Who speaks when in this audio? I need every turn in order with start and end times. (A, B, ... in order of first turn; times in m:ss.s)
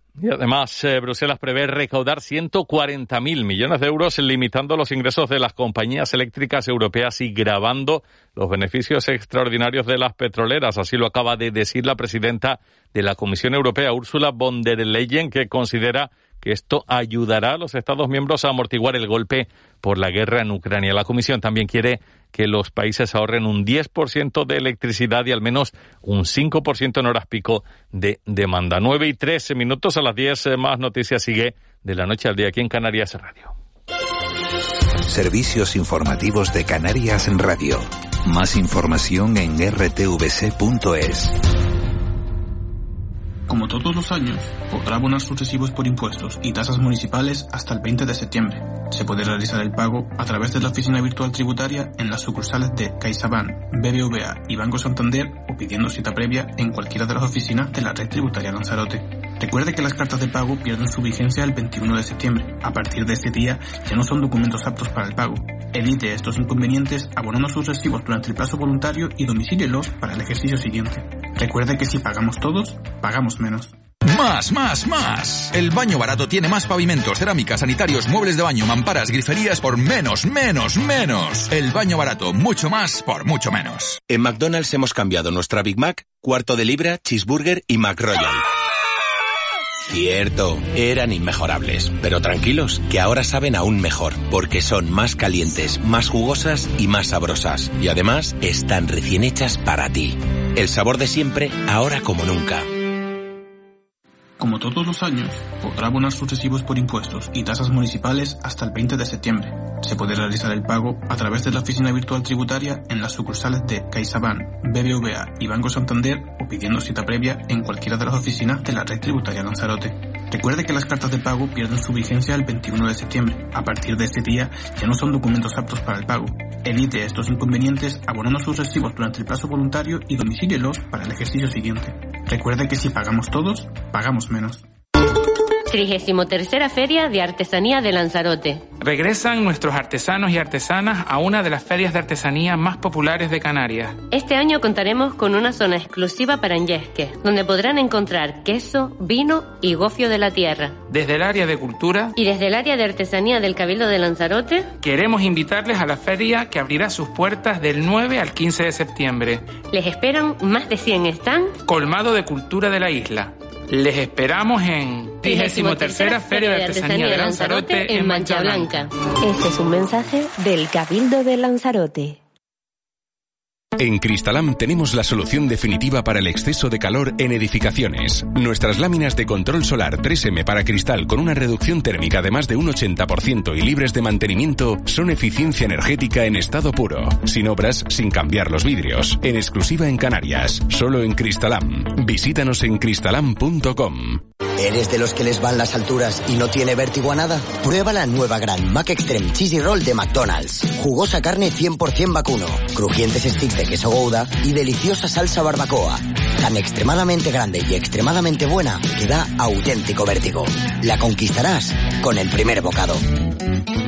0:00.2-0:33.5 A
0:35.1-0:41.3 B
0:43.5-1:13.7 C
1:14.0-1:24.0 D
1:24.1-1:28.4 B
1:29.9-1:42.6 B
1:44.4-2:14.6 C
2:15.7-2:18.6 E
2:18.8-2:24.0 F
2:24.1-2:30.8 E
2:30.9-2:32.1 F
2:32.2-2:34.7 E
2:34.8-2:39.6 F
2:39.7-2:41.6 E
2:41.6-2:48.7 F
2:45.2-2:48.9 E
2:49.2-2:52.2 G
2:53.8-3:14.2 H
3:14.6-3:33.0 I